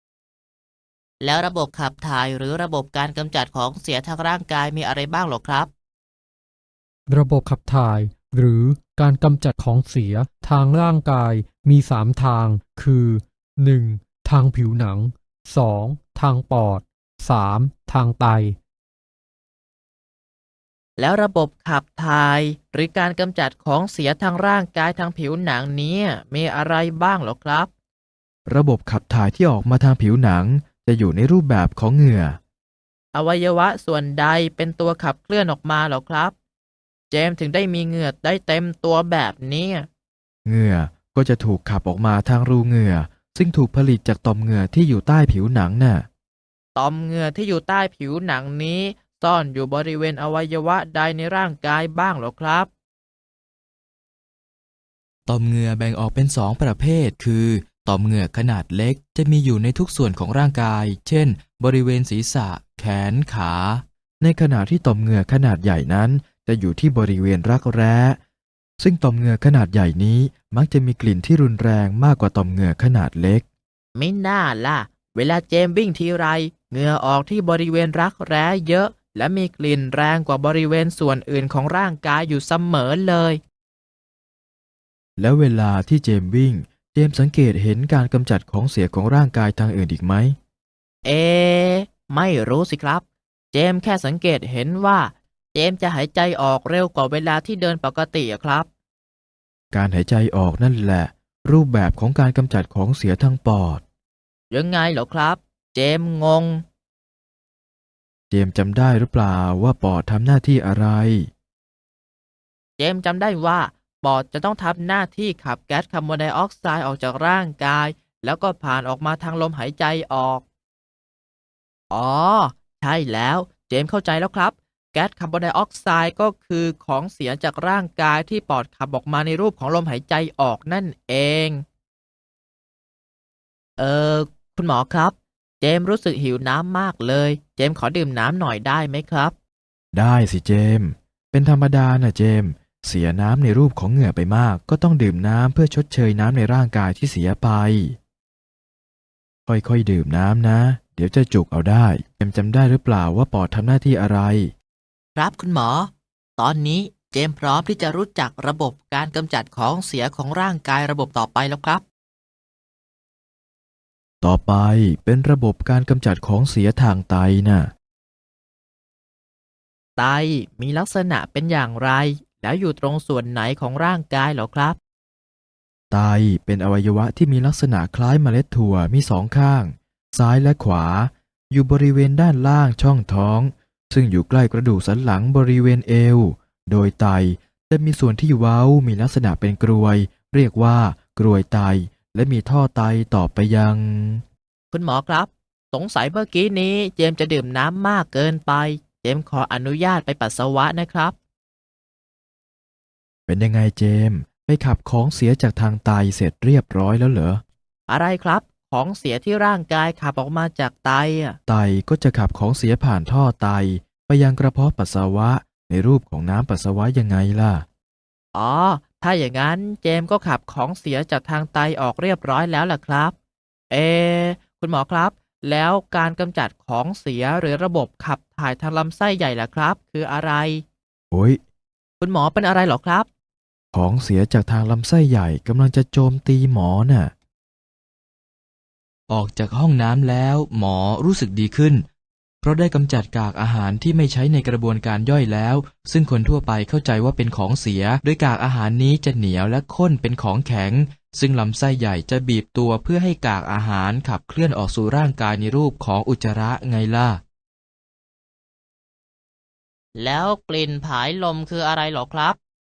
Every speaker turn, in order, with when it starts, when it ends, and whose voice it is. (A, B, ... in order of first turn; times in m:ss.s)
0:01.2-0:05.7 A
0:07.1-0:18.6 B
0:21.0-0:27.7 A
0:28.5-0:32.4 C
0:33.1-0:36.4 A
0:37.1-0:39.9 A
0:40.5-0:46.1 C
0:46.8-0:52.7 A
0:55.3-1:08.2 C
1:08.8-1:13.4 C
1:14.0-1:23.4 A
1:25.2-1:30.4 C
1:31.0-1:38.7 A
1:39.7-1:43.8 C
1:44.5-1:46.6 A
1:48.3-1:51.3 C
1:52.8-2:00.4 A
2:01.9-2:11.6 A
2:13.8-2:19.3 A
2:19.9-2:28.0 C
2:29.5-2:34.5 C
2:35.2-2:41.8 A
2:44.2-2:47.7 C
2:50.0-2:54.8 A
2:55.9-3:14.2 C
3:14.7-3:21.2 A
3:23.3-3:27.4 C
3:27.9-3:31.4 A
3:31.5-3:37.6 C
3:38.3-3:43.2 A
3:43.7-3:50.6 A
3:51.1-3:51.4 C
3:52.0-3:53.1 A
3:53.7-3:57.1 C
3:59.1-4:01.8 C
4:02.4-4:17.2 C
4:20.0-4:22.4 A